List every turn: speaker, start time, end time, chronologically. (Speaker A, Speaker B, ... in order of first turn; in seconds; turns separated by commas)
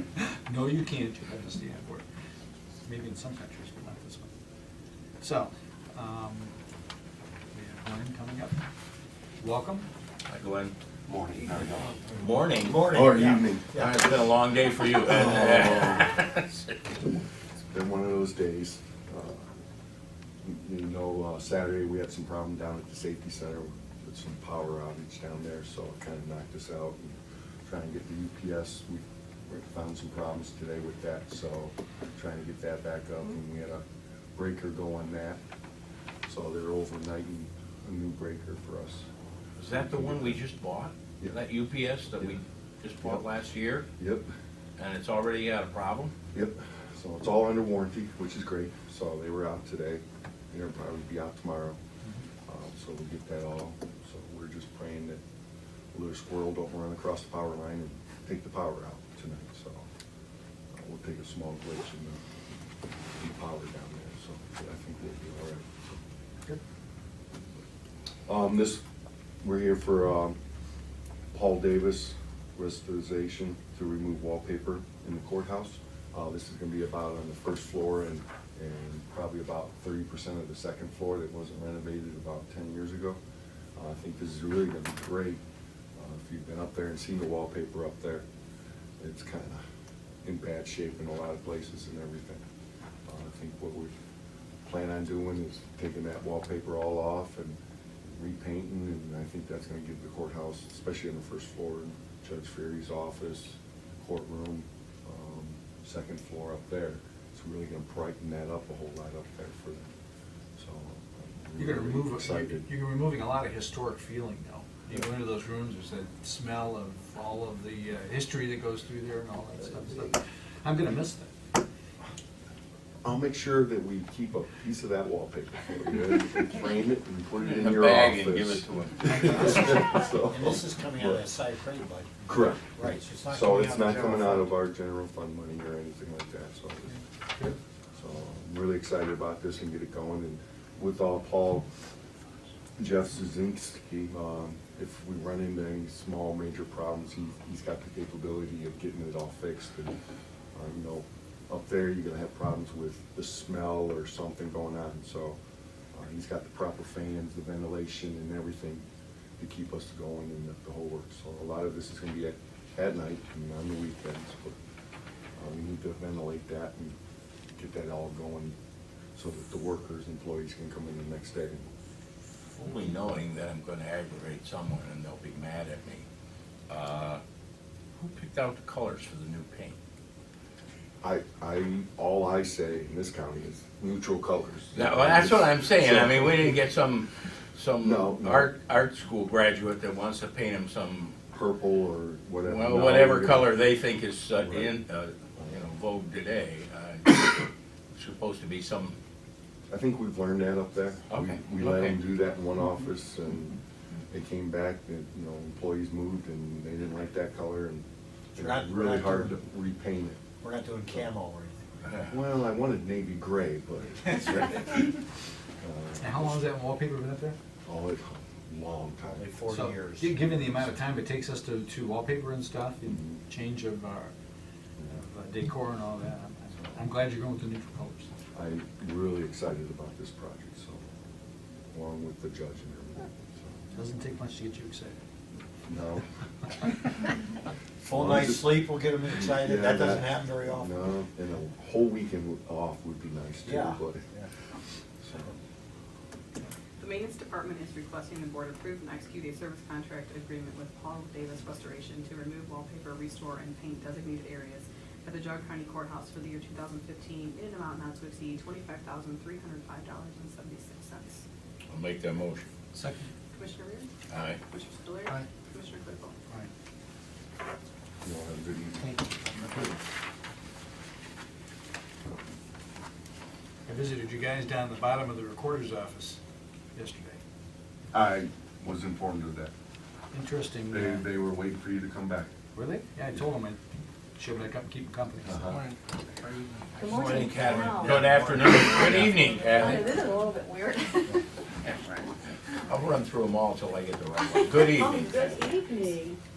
Speaker A: 0.5-2.0, Speaker A: 2.8-4.3, Speaker A: 5.2-6.5, Speaker A: 7.5-8.6, Speaker A: 9.4-9.9, Speaker B: 10.3-10.7, Speaker C: 11.1-11.8, Speaker D: 11.3-11.9, Speaker B: 12.2-12.9, Speaker C: 12.5-14.0, Speaker D: 12.8-13.8, Speaker B: 13.7-16.4, Speaker D: 15.0-16.1, Speaker D: 17.7-19.5, Speaker D: 20.4-33.8, Speaker D: 34.3-35.4, Speaker D: 36.3-39.1, Speaker B: 39.6-43.9, Speaker D: 39.7-40.4, Speaker D: 43.0-43.3, Speaker D: 44.0-44.3, Speaker B: 44.8-46.1, Speaker D: 46.3-51.8, Speaker D: 52.5-55.2, Speaker D: 55.9-59.9, Speaker D: 60.7-62.2, Speaker D: 63.2-66.0, Speaker D: 68.3-68.8, Speaker D: 69.4-70.4, Speaker D: 71.3-83.2, Speaker D: 83.8-85.4, Speaker D: 86.0-88.2, Speaker D: 89.0-89.6, Speaker D: 90.2-92.4, Speaker D: 93.1-93.9, Speaker D: 94.6-109.9, Speaker D: 110.6-112.7, Speaker A: 111.5-121.3, Speaker D: 123.0-131.2, Speaker B: 127.4-129.4, Speaker A: 129.1-129.7, Speaker C: 129.3-134.5, Speaker D: 132.2-137.0, Speaker D: 137.9-141.7, Speaker D: 142.8-149.9, Speaker D: 150.5-155.4, Speaker D: 155.9-158.8, Speaker D: 159.4-164.5, Speaker D: 165.3-166.9, Speaker D: 167.6-168.6, Speaker D: 169.1-171.7, Speaker B: 172.5-176.1, Speaker B: 176.7-177.2, Speaker B: 178.0-179.8, Speaker D: 181.0-186.6, Speaker B: 184.7-191.2, Speaker D: 187.8-188.5, Speaker D: 191.3-193.5, Speaker B: 192.4-199.0, Speaker D: 194.4-194.7, Speaker D: 199.7-203.6, Speaker B: 201.1-202.0, Speaker D: 204.1-207.8, Speaker D: 208.3-210.2, Speaker C: 208.3-209.4, Speaker C: 210.4-212.0, Speaker D: 212.0-215.0, Speaker D: 215.6-216.4, Speaker A: 216.0-217.4, Speaker D: 217.7-219.2, Speaker C: 219.0-220.7, Speaker A: 219.5-224.1, Speaker A: 224.9-228.1, Speaker D: 228.3-230.8, Speaker D: 231.7-233.6, Speaker A: 233.7-235.0, Speaker D: 235.7-236.1, Speaker D: 237.8-244.0, Speaker C: 237.8-240.8, Speaker C: 243.4-244.3, Speaker D: 245.0-245.3, Speaker E: 246.8-261.2, Speaker B: 261.7-262.5, Speaker A: 262.7-263.1, Speaker E: 263.3-263.9, Speaker B: 264.1-264.4, Speaker E: 264.5-266.2, Speaker D: 268.0-269.8, Speaker A: 273.6-276.2, Speaker A: 276.7-277.2, Speaker D: 277.9-279.5, Speaker A: 280.1-281.1, Speaker D: 280.7-282.3, Speaker A: 282.5-283.6, Speaker A: 284.2-285.6, Speaker D: 285.2-285.6, Speaker B: 285.5-290.2, Speaker F: 286.8-287.9, Speaker F: 289.6-290.9, Speaker B: 291.6-292.1, Speaker B: 292.6-295.5, Speaker F: 294.8-296.1